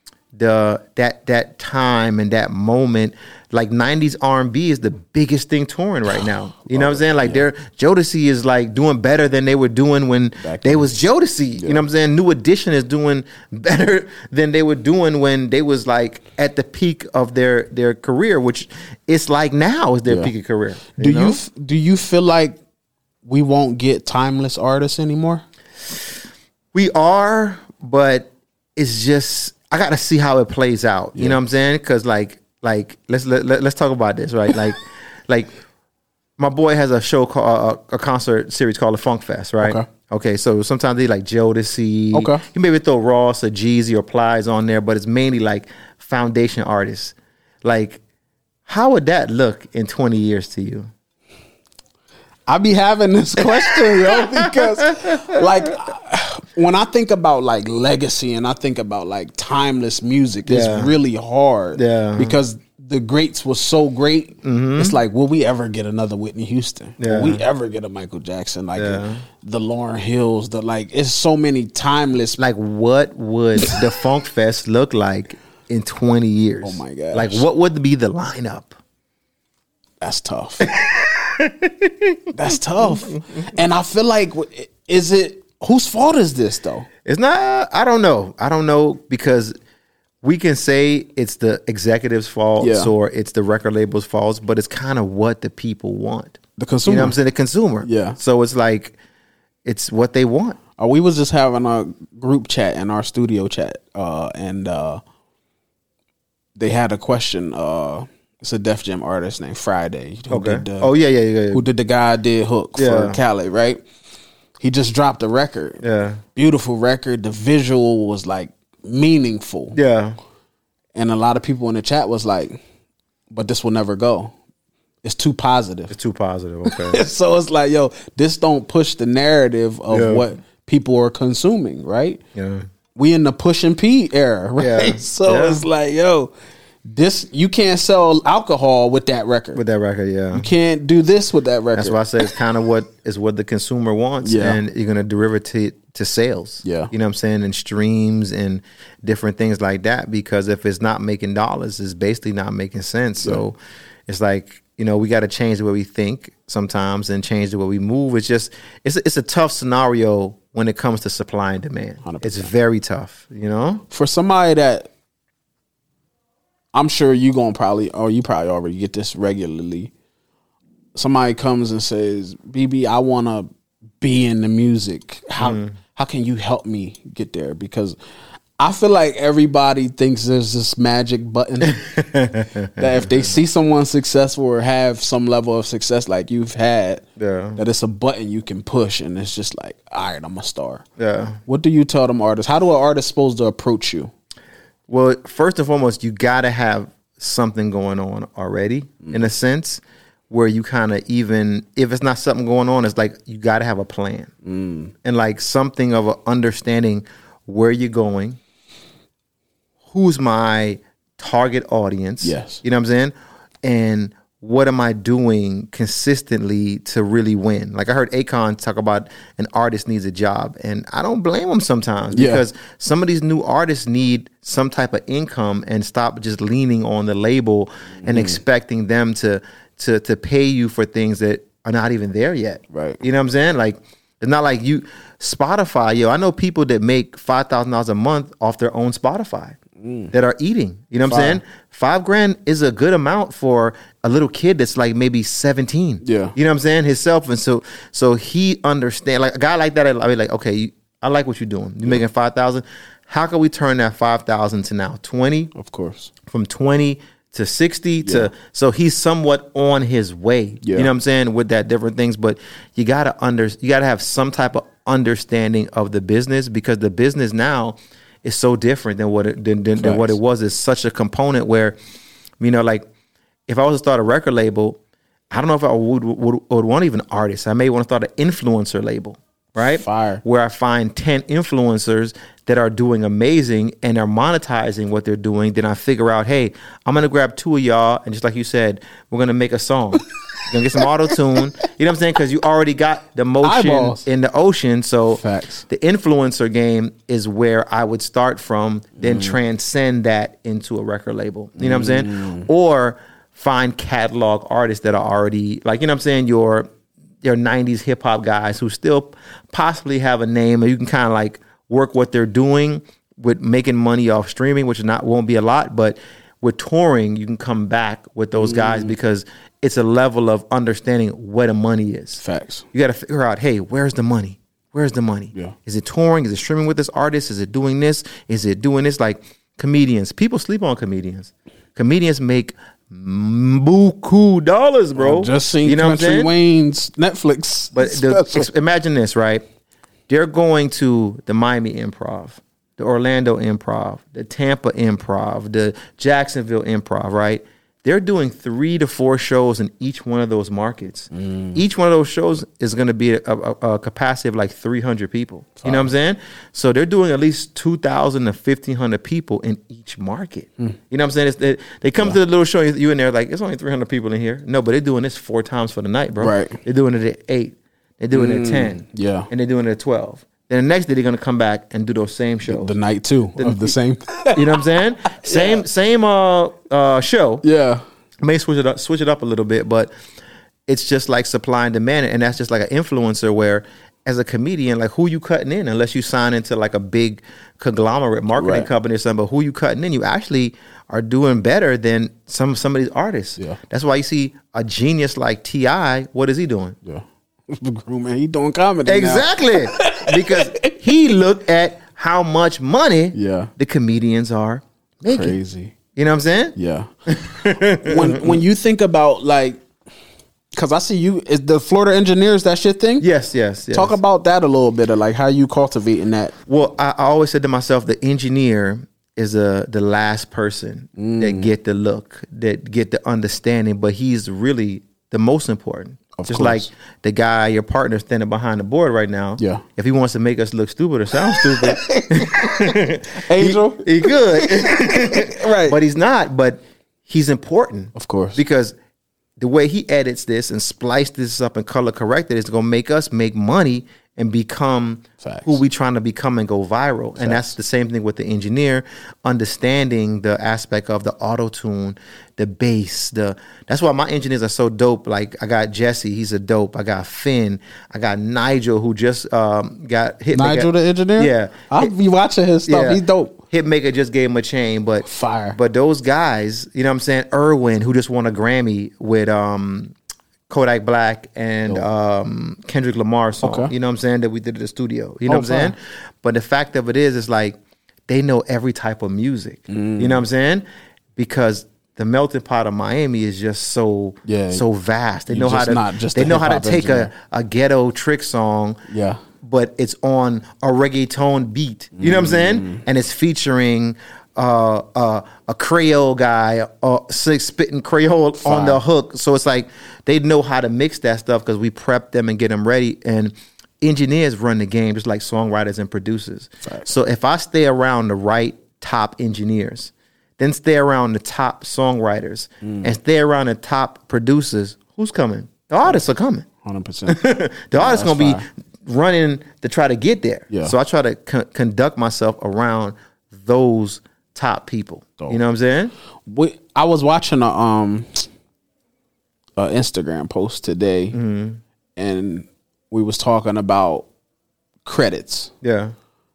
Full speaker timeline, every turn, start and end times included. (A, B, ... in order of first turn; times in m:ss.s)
0:00.3-0:21.4 A
0:06.7-0:07.4 B
0:10.4-0:11.0 B
0:20.1-0:20.3 B
0:20.9-0:22.6 B
0:23.2-0:25.4 B
0:26.7-0:35.5 A
0:36.4-0:48.0 A
0:39.6-0:39.9 B
0:42.1-0:42.4 B
0:48.7-0:50.9 A
0:52.5-1:12.4 B
0:53.4-0:55.4 A
1:00.4-1:00.9 A
1:01.8-1:02.4 A
1:04.4-1:05.0 A
1:07.0-1:07.4 A
1:08.8-1:09.2 A
1:12.4-1:18.8 A
1:16.6-1:17.4 B
1:20.0-1:20.7 B
1:20.7-1:22.2 A
1:22.3-1:26.9 B
1:27.0-1:29.5 A
1:30.2-1:39.0 A
1:32.6-1:32.9 B
1:36.6-1:37.2 B
1:37.8-1:38.2 B
1:39.6-1:40.6 A
1:40.8-1:45.0 B
1:46.6-1:50.9 B
1:50.3-1:51.6 A
1:51.5-1:53.8 B
1:52.8-1:53.2 A
1:54.6-1:55.8 B
1:55.8-1:56.2 A
1:56.3-1:59.8 B
1:59.7-2:00.2 A
2:00.9-2:02.6 B
2:03.3-2:04.3 B
2:05.0-2:05.9 B
2:05.9-2:07.0 A
2:06.6-2:12.2 B
2:09.9-2:10.2 A
2:12.3-2:12.6 A
2:12.9-2:16.3 B
2:14.6-2:15.7 A
2:16.9-2:19.6 B
2:19.5-2:20.5 A
2:20.3-2:22.3 B
2:21.7-2:43.8 A
2:24.2-2:24.6 B
2:26.6-2:26.9 B
2:42.0-2:42.5 B
2:43.9-2:44.9 B
2:46.7-2:49.9 B
2:50.9-2:58.0 B
2:55.4-2:55.7 A
2:58.6-3:01.8 B
3:01.7-3:03.3 A
3:02.8-3:10.8 B
3:07.2-3:07.6 A
3:11.0-3:11.4 A
3:11.4-3:14.1 B
3:14.9-3:24.3 A
3:24.4-3:24.9 B
3:25.0-3:28.4 A
3:29.9-3:59.6 A
3:32.2-3:32.6 B
3:42.1-3:42.4 B
3:48.0-3:48.4 B
3:52.7-3:53.0 B
3:59.8-4:00.1 B
4:00.1-4:15.5 A
4:01.0-4:01.4 B
4:06.0-4:06.3 B
4:15.5-4:16.1 B
4:16.2-4:31.8 A
4:18.0-4:18.3 B
4:20.6-4:20.9 B
4:29.8-4:30.2 B
4:32.4-4:32.8 A
4:33.5-4:34.8 A
4:35.3-5:06.7 A
4:39.7-4:40.2 B
4:53.4-4:54.0 B
4:55.1-4:55.6 B
4:59.0-4:59.4 B
5:01.6-5:02.5 B
5:07.2-5:22.2 A
5:18.4-5:18.9 B
5:22.2-5:22.6 B
5:22.7-5:36.3 A
5:35.0-5:38.5 B
5:37.7-5:39.4 A
5:40.1-6:12.7 A
5:51.1-5:51.6 B
5:55.6-5:55.9 B
6:06.2-6:06.6 B
6:08.1-6:09.3 B
6:12.4-6:15.6 B
6:13.4-6:13.7 A
6:14.3-6:17.4 A
6:17.4-6:17.8 B
6:18.2-6:19.9 A
6:20.7-6:36.8 A
6:28.4-6:28.7 B
6:36.8-6:40.8 B
6:38.8-6:45.4 A
6:43.1-6:43.5 B
6:45.1-6:45.7 B
6:45.9-6:46.6 A
6:46.6-6:46.9 B
6:47.1-6:48.4 A
6:47.8-6:49.6 B
6:50.5-6:53.1 B
6:53.0-6:54.0 A
6:53.7-6:56.3 B
6:56.5-7:18.7 A
7:01.0-7:01.5 B
7:06.1-7:06.7 B
7:09.4-7:09.6 B
7:11.2-7:15.8 B
7:17.9-7:18.4 B
7:19.4-7:41.9 A
7:25.2-7:25.6 B
7:27.2-7:27.5 B
7:40.3-7:43.4 B
7:42.7-7:49.9 A
7:45.0-7:45.6 B
7:50.5-8:00.6 A
7:53.4-7:53.7 B
7:55.3-7:55.7 B
7:59.7-8:00.2 B
8:01.2-8:08.8 A
8:04.2-8:04.6 B
8:05.3-8:07.1 B
8:08.9-8:09.2 B
8:09.4-8:36.4 A
8:12.0-8:12.8 B
8:18.4-8:18.8 B
8:26.6-8:26.9 B
8:32.6-8:32.9 B
8:36.6-8:37.2 B
8:37.1-8:45.9 A
8:37.7-8:38.4 B
8:46.2-8:48.3 B
8:49.6-8:51.2 B
8:51.1-8:51.6 A
8:52.0-8:54.1 B
8:54.8-8:55.5 B
8:55.6-8:55.9 A